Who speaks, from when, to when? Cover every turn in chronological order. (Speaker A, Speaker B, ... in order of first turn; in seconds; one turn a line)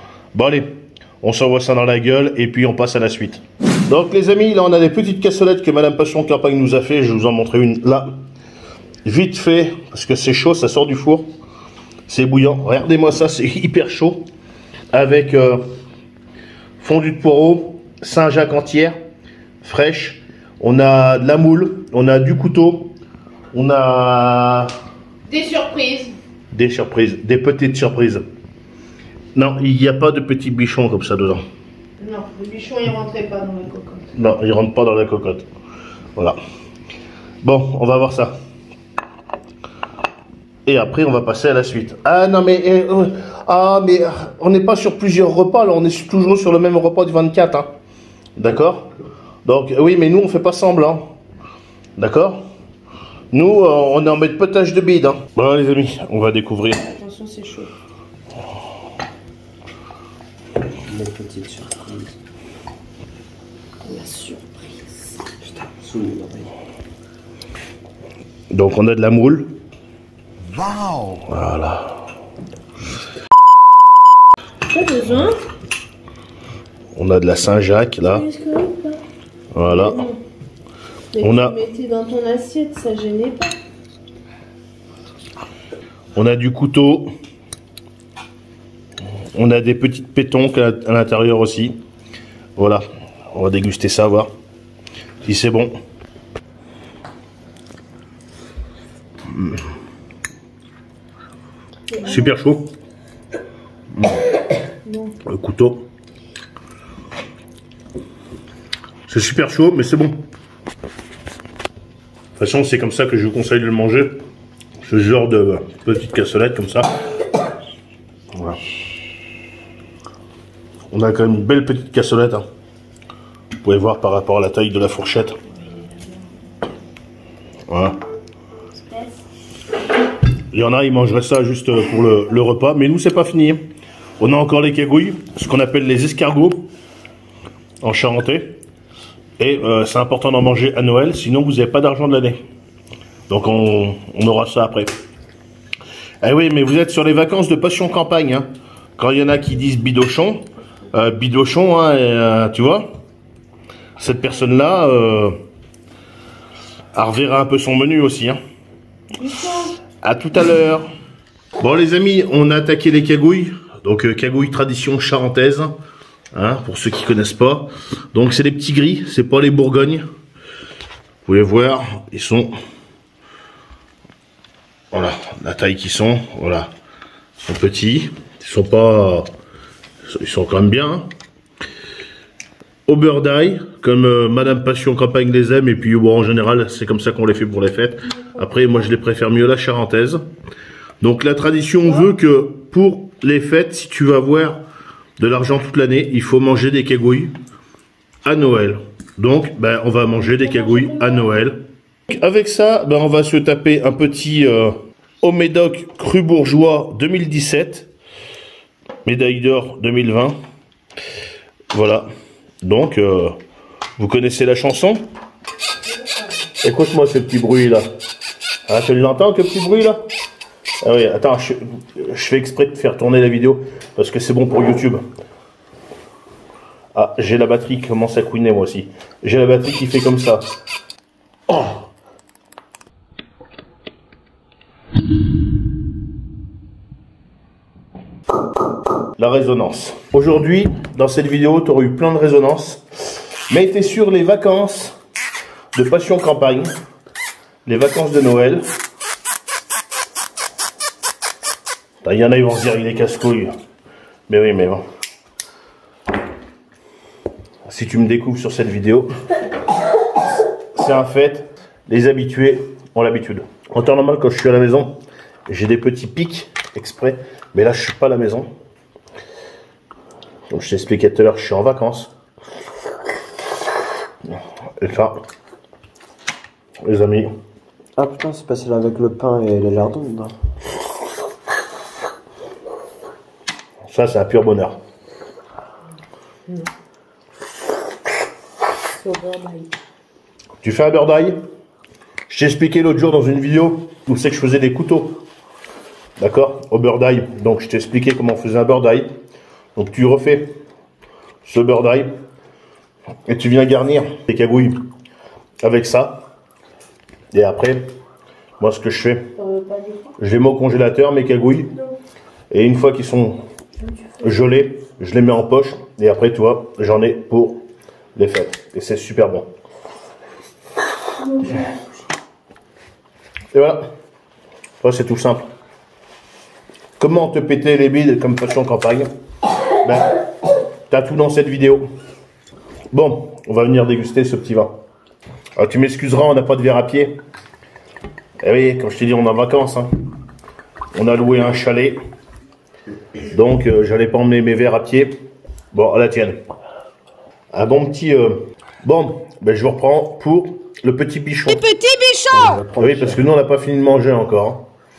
Speaker A: 0.3-8.1
Speaker A: 9.1-11.3
Speaker A: 12.1-14.3
Speaker A: 14.9-15.6
Speaker A: 16.8-19.0
Speaker A: 19.6-22.9
Speaker A: 23.5-24.7
Speaker B: 25.3-26.2
Speaker A: 26.5-28.2
Speaker A: 29.4-31.4
Speaker B: 32.0-34.1
Speaker A: 34.1-35.5
Speaker A: 37.4-38.4
Speaker A: 40.7-47.7
Speaker A: 48.4-48.9
Speaker A: 49.5-51.1
Speaker A: 52.0-52.5
Speaker A: 53.3-56.8
Speaker B: 57.0-57.7
Speaker C: 60.9-62.1
Speaker B: 63.9-64.8
Speaker C: 65.4-66.5
Speaker A: 68.5-69.5
Speaker C: 70.5-71.2
Speaker A: 71.3-72.1
Speaker B: 74.7-75.4
Speaker A: 77.0-78.3
Speaker B: 78.1-79.0
Speaker A: 79.5-80.1
Speaker B: 79.7-80.2
Speaker B: 81.1-83.5
Speaker A: 81.2-81.5
Speaker A: 86.2-87.1
Speaker A: 89.3-91.8
Speaker A: 92.6-94.3
Speaker A: 95.2-95.8
Speaker A: 99.3-99.6
Speaker B: 101.9-102.3
Speaker A: 102.0-102.7
Speaker A: 103.9-104.2
Speaker B: 104.9-105.2
Speaker A: 105.2-105.9
Speaker A: 109.1-110.2
Speaker A: 112.4-114.2
Speaker A: 114.8-116.9
Speaker A: 118.3-118.6
Speaker A: 120.9-122.5
Speaker A: 123.6-125.4
Speaker B: 125.8-126.1
Speaker A: 127.7-128.0
Speaker A: 130.5-133.6
Speaker A: 134.2-136.7
Speaker A: 137.8-138.6
Speaker A: 139.4-142.4
Speaker A: 143.3-144.9
Speaker A: 146.2-152.9
Speaker A: 154.0-155.4
Speaker A: 156.9-158.4
Speaker B: 159.2-159.7
Speaker A: 160.0-160.9
Speaker A: 161.6-165.8
Speaker A: 166.3-170.1
Speaker A: 171.2-172.5
Speaker A: 174.9-176.7
Speaker A: 177.4-179.3
Speaker A: 180.1-181.1
Speaker A: 182.9-190.2
Speaker A: 191.0-194.6
Speaker A: 195.2-197.3
Speaker A: 198.2-207.9
Speaker A: 209.1-210.4
Speaker A: 211.7-212.1
Speaker A: 212.6-213.4
Speaker A: 214.0-215.0
Speaker A: 216.6-217.8
Speaker A: 218.7-220.0
Speaker A: 220.8-225.0
Speaker A: 226.9-230.5
Speaker A: 239.2-242.8
Speaker A: 243.5-244.9
Speaker A: 245.8-246.8
Speaker A: 247.7-248.7
Speaker A: 252.0-253.5
Speaker A: 254.3-254.8
Speaker A: 257.7-259.1
Speaker A: 260.8-268.5
Speaker A: 270.5-272.1
Speaker A: 274.8-275.2
Speaker A: 276.8-277.3
Speaker C: 278.0-280.4
Speaker A: 283.9-284.8
Speaker B: 289.0-289.7
Speaker A: 290.6-291.4
Speaker A: 292.3-295.2
Speaker A: 296.2-299.1
Speaker A: 299.8-300.5
Speaker A: 301.4-302.1
Speaker A: 303.3-304.8
Speaker A: 305.6-306.2
Speaker A: 307.3-307.9
Speaker A: 308.6-309.3
Speaker B: 309.4-310.1
Speaker A: 310.2-311.7
Speaker A: 312.5-313.4
Speaker A: 314.2-317.6
Speaker A: 318.1-319.5
Speaker B: 321.2-321.7
Speaker A: 323.5-323.8
Speaker A: 324.8-325.4
Speaker A: 327.0-329.1
Speaker A: 329.8-330.2
Speaker A: 330.9-331.9
Speaker A: 332.9-334.7
Speaker A: 335.6-337.2
Speaker A: 338.4-339.9
Speaker A: 340.9-342.0
Speaker A: 343.3-345.2
Speaker A: 345.7-346.4
Speaker A: 347.5-351.6
Speaker B: 351.5-352.6
Speaker C: 352.3-353.2
Speaker A: 352.8-354.7